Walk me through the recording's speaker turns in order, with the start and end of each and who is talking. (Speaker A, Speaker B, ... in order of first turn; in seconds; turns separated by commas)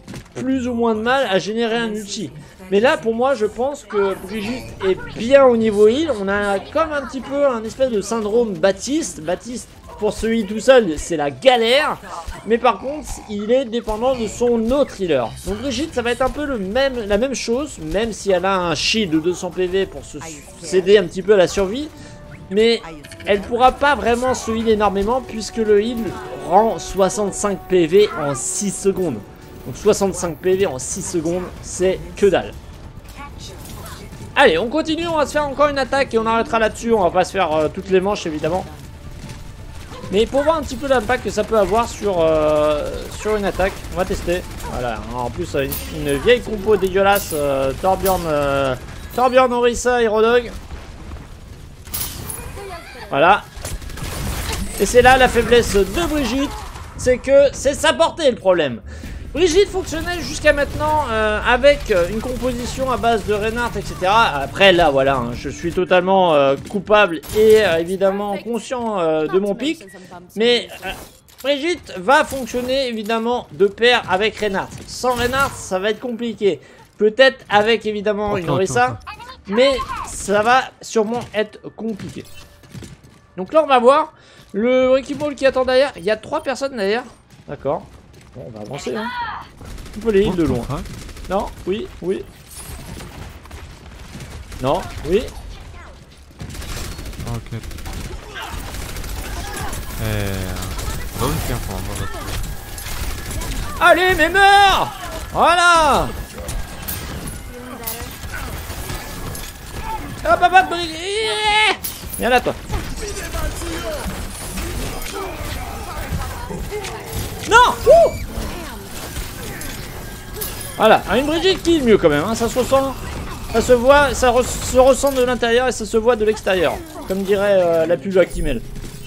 Speaker A: 0.3-21.9, Speaker A: 22.5-32.6, Speaker A: 34.4-38.7, Speaker A: 40.1-50.6, Speaker A: 53.1-53.5, Speaker A: 54.8-82.3, Speaker B: 78.3-79.0, Speaker A: 83.4-89.1, Speaker A: 90.0-90.7, Speaker B: 90.2-90.9, Speaker A: 91.3-92.3, Speaker A: 94.6-95.3, Speaker B: 97.2-97.6, Speaker B: 100.0-102.5, Speaker A: 103.8-106.1, Speaker A: 110.2-112.6, Speaker A: 117.5-118.2, Speaker A: 120.8-123.0, Speaker A: 123.5-128.7